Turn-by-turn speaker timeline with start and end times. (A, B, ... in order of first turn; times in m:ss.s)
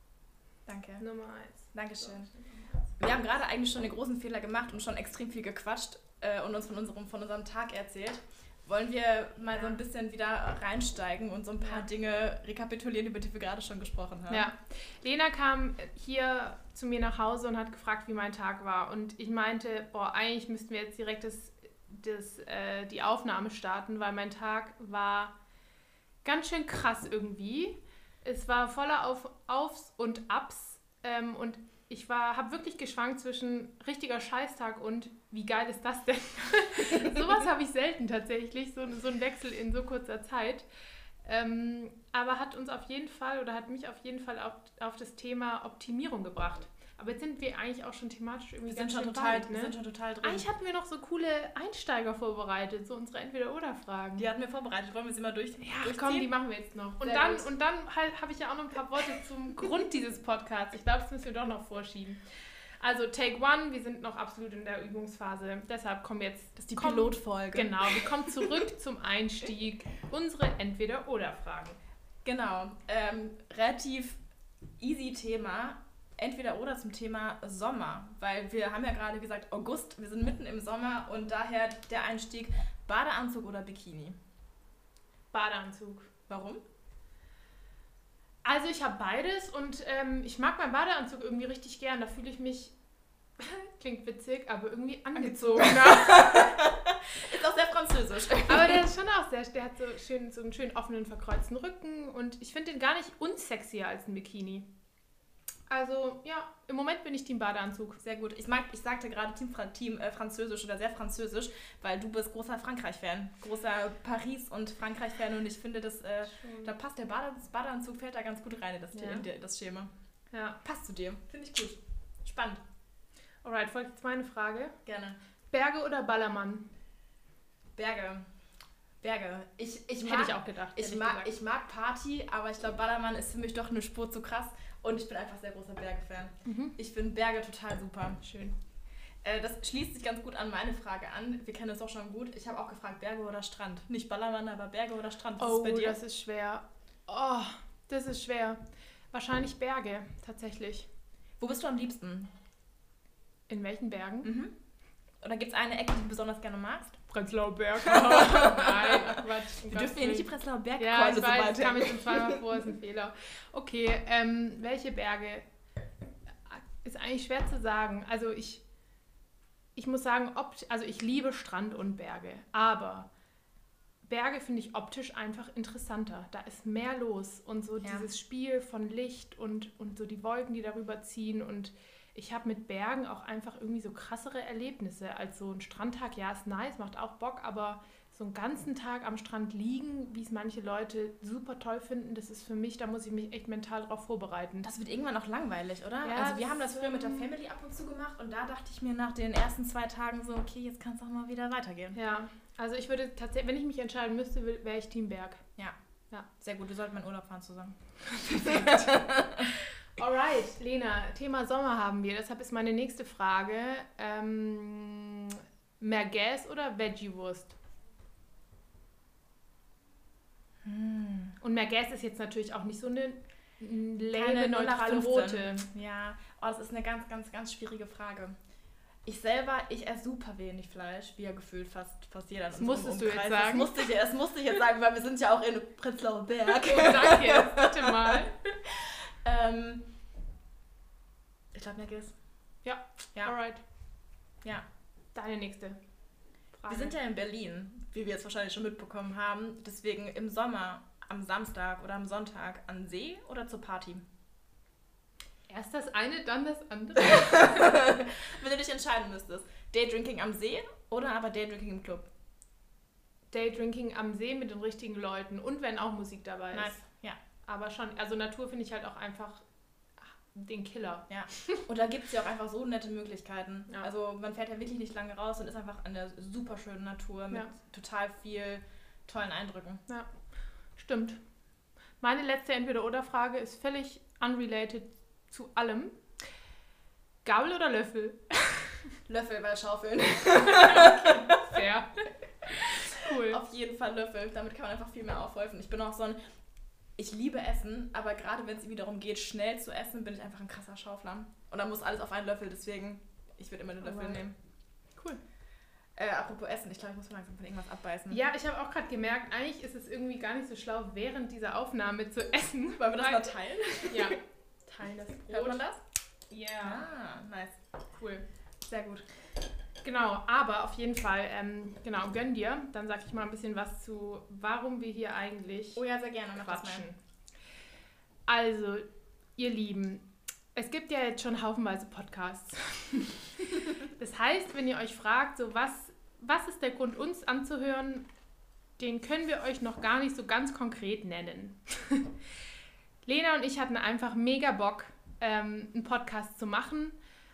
0:00.7-0:01.0 A
0:01.0-0:02.8 B
0:01.7-0:02.3 A
0:03.0-0:14.5 A
0:14.3-0:25.4 B
0:26.2-0:40.7 B
0:41.2-0:54.3 B
0:48.7-0:50.5 A
0:54.2-0:56.3 A
0:55.6-1:02.2 B
0:57.0-0:57.5 A
1:02.8-1:11.8 B
1:06.6-1:08.5 A
1:12.2-1:14.2 A
1:14.8-1:24.2 A
1:25.3-1:26.1 B
1:26.3-1:26.6 A
1:28.4-1:32.7 B
1:33.4-1:36.6 B
1:35.2-1:38.8 A
1:38.5-1:44.7 B
1:45.7-1:48.0 B
1:48.0-1:59.9 A
1:56.3-1:56.7 B
1:58.9-1:59.2 B
2:00.3-2:00.6 B
2:00.6-2:02.6 A
2:03.4-2:04.8 B
2:04.9-2:05.2 A
2:05.5-2:06.7 B
2:07.8-2:08.3 A
2:09.0-2:18.2 A
2:10.0-2:11.3 B
2:16.4-2:16.8 B
2:18.2-2:18.6 B
2:19.2-2:26.0 A
2:25.4-2:28.6 B
2:29.1-2:30.9 B
2:31.4-2:32.3 A
2:33.5-2:34.3 B
2:34.2-2:34.5 A
2:35.2-2:37.0 A
2:37.1-2:45.4 B
2:37.8-2:42.4 A
2:46.4-2:48.6 B
2:49.8-2:53.1 B
2:54.1-3:14.7 B
2:57.8-2:58.1 A
3:14.6-3:22.0 A
3:16.0-3:17.3 B
3:21.9-3:25.4 B
3:26.4-3:27.8 A
3:28.1-3:37.6 B
3:28.3-3:29.5 A
3:40.6-3:41.4 A
3:41.4-3:45.7 B
3:44.1-3:48.4 A
3:49.1-3:59.9 A
3:52.5-3:53.9 B
3:56.6-3:58.4 B
4:01.5-4:02.1 A
4:02.6-4:03.6 B
4:05.2-4:05.8 B
4:06.6-4:07.0 B
4:06.7-4:14.0 A
4:15.5-4:17.9 B
4:17.1-4:22.1 A
4:23.3-4:26.8 B
4:26.5-4:27.2 A
4:27.5-4:29.4 B
4:30.0-4:31.6 B
4:31.1-4:39.8 A
4:40.8-4:41.2 B
4:42.0-4:46.0 B
4:47.2-4:48.9 B
4:49.1-4:51.6 A
4:50.5-4:52.1 B
4:52.7-4:56.2 A
4:52.9-4:53.4 B
4:57.0-5:04.2 A
5:03.8-5:04.4 B
5:06.0-5:08.2 A
5:08.1-5:13.3 B
5:12.8-5:14.2 A
5:13.8-5:15.6 B
5:15.3-5:15.8 A
5:16.3-5:16.8 B
5:16.6-5:17.6 A
5:17.9-5:18.3 B
5:18.6-5:19.0 A
5:19.8-5:25.8 B
5:25.8-5:26.9 A
5:26.4-5:27.0 B
5:28.3-5:28.8 B
5:29.4-5:38.1 B
5:38.8-5:42.2 B
5:43.0-5:47.0 B